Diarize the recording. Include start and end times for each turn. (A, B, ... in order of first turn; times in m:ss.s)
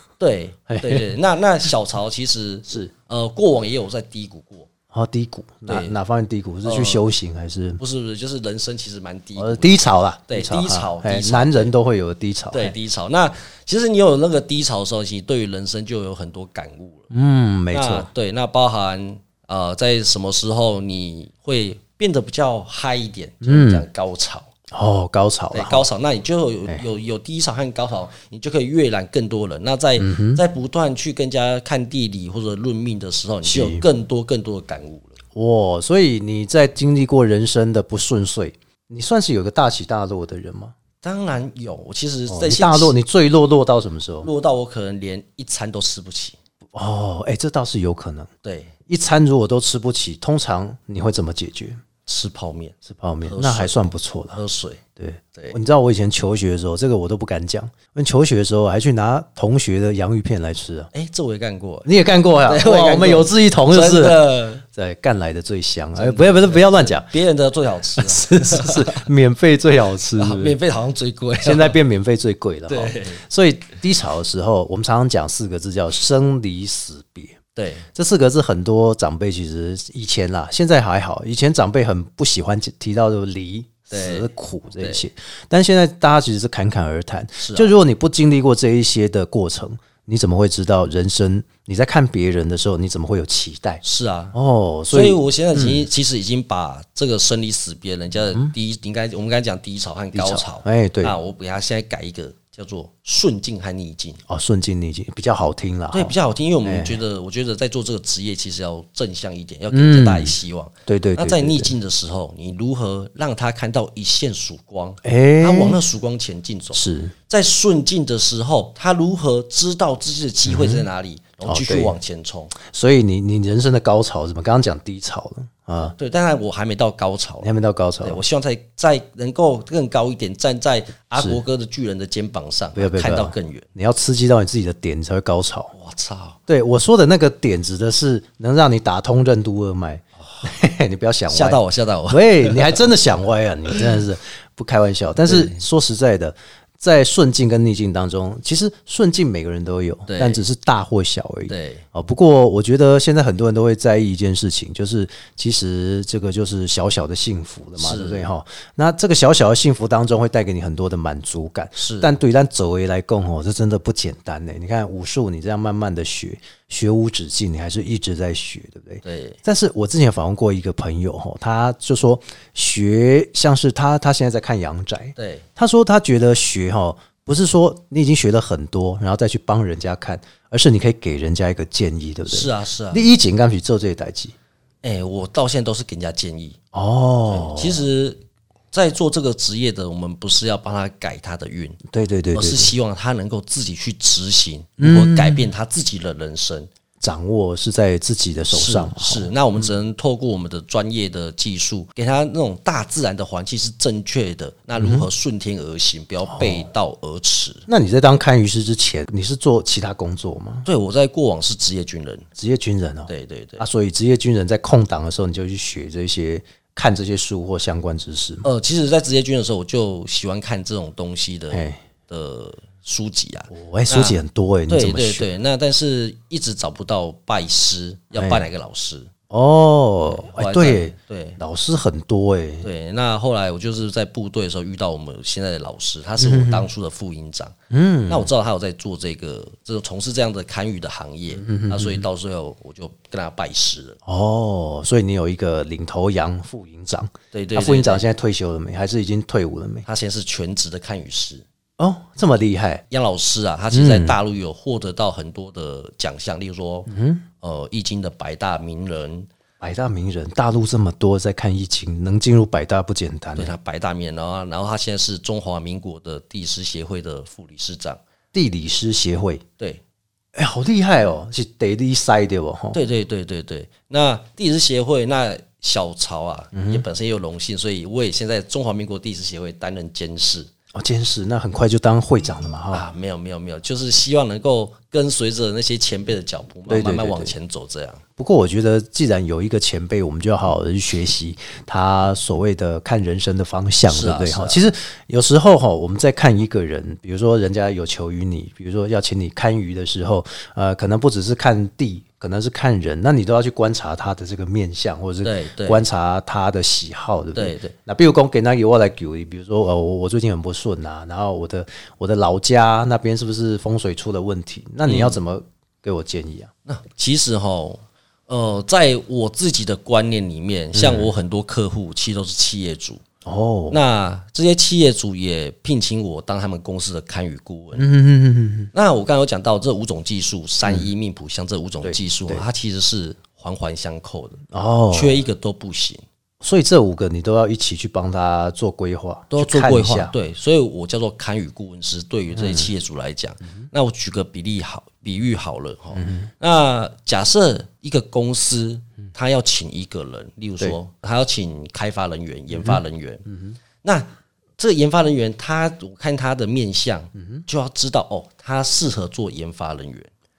0:00.2-0:04.7 A
0:00.7-0:01.1 B
0:04.9-0:07.8 B
0:05.7-0:06.0 A
0:06.6-0:07.0 A
0:07.8-0:11.7 A
0:09.4-0:12.8 B
0:12.5-0:17.1 A
0:17.1-0:18.1 B
0:17.7-0:24.5 A
0:23.4-0:23.9 B
0:24.7-0:25.9 B
0:25.5-0:35.2 A
0:30.0-0:30.4 B
0:33.4-0:33.8 B
0:35.3-0:40.8 B
0:41.0-0:43.0 A
0:42.3-0:44.3 B
0:44.2-0:46.4 A
0:46.7-0:48.3 B
0:48.4-0:48.7 A
0:48.9-0:51.8 B
0:52.1-0:54.8 A
0:52.8-0:54.4 B
0:55.0-1:00.9 B
1:00.9-1:01.9 A
1:01.8-1:07.1 B
1:02.4-1:04.6 A
1:06.0-1:09.1 A
1:08.0-1:10.6 B
1:10.1-1:11.8 A
1:11.4-1:17.4 B
1:12.7-1:13.2 A
1:17.6-1:17.9 A
1:17.9-1:33.8 B
1:23.9-1:24.3 A
1:27.4-1:27.7 A
1:33.8-1:34.4 A
1:34.3-1:35.8 B
1:34.9-1:44.2 A
1:40.1-1:41.2 B
1:44.3-1:47.0 B
1:45.9-2:02.6 A
1:49.7-1:51.8 B
1:55.0-1:55.8 B
1:56.7-1:57.1 B
2:00.5-2:00.9 B
2:01.4-2:02.0 B
2:02.6-2:06.0 B
2:05.8-2:07.5 A
2:07.4-2:08.2 B
2:08.0-2:13.7 A
2:11.2-2:11.4 B
2:12.8-2:15.7 B
2:15.7-2:16.4 A
2:16.5-3:04.4 B
2:21.3-2:22.8 A
2:25.3-2:25.6 A
2:30.1-2:30.4 A
2:31.5-2:31.8 A
2:37.8-2:38.3 A
2:41.8-2:42.1 A
2:49.0-2:49.4 A
2:55.2-2:55.5 A
3:02.3-3:03.1 A
3:04.8-3:06.6 A
3:06.7-3:07.8 B
3:07.3-3:08.2 A
3:08.7-3:11.8 A
3:11.9-3:12.7 B
3:12.3-3:16.7 A
3:14.8-3:15.5 B
3:17.0-3:19.3 B
3:18.5-3:27.7 A
3:24.8-3:25.1 B
3:26.3-3:26.7 B
3:27.7-3:30.7 B
3:30.6-3:32.3 A
3:32.4-3:38.5 B
3:33.1-3:33.6 A
3:38.4-3:49.1 A
3:41.5-3:41.8 B
3:43.5-3:45.3 B
3:48.2-3:48.5 B
3:49.3-3:52.7 B
3:50.1-3:51.4 A
3:52.6-3:57.6 A
3:56.2-3:56.7 B
3:57.7-3:58.3 B
3:58.1-4:04.0 A
4:01.4-4:02.1 B
4:04.1-4:09.8 B
4:07.3-4:08.0 A
4:09.9-4:11.4 A
4:11.8-4:12.8 B
4:12.9-4:16.9 A
4:13.7-4:14.2 B
4:16.9-4:17.3 B
4:17.4-4:19.3 A
4:19.6-4:23.6 B
4:23.4-4:28.0 A
4:28.3-4:29.4 B
4:30.4-4:32.8 B
4:32.7-4:40.5 A
4:36.5-4:36.8 B
4:40.7-4:42.9 B
4:42.7-4:48.0 A
4:46.7-4:47.3 B
4:48.2-5:16.5 B
4:53.9-4:54.6 A
5:05.2-5:05.8 A
5:07.4-5:07.8 A
5:14.9-5:15.2 A
5:16.7-5:23.0 A
5:20.8-5:21.1 B
5:23.2-5:23.8 B
5:23.7-5:27.9 A
5:27.8-5:28.7 B
5:28.7-5:36.0 A
5:31.8-5:32.5 B
5:34.5-5:35.3 B
5:36.4-5:40.1 B
5:39.3-5:53.2 A
5:42.3-5:42.7 B
5:46.0-5:46.3 B
5:52.5-5:53.6 B
5:53.8-6:00.1 A
5:57.2-5:57.4 B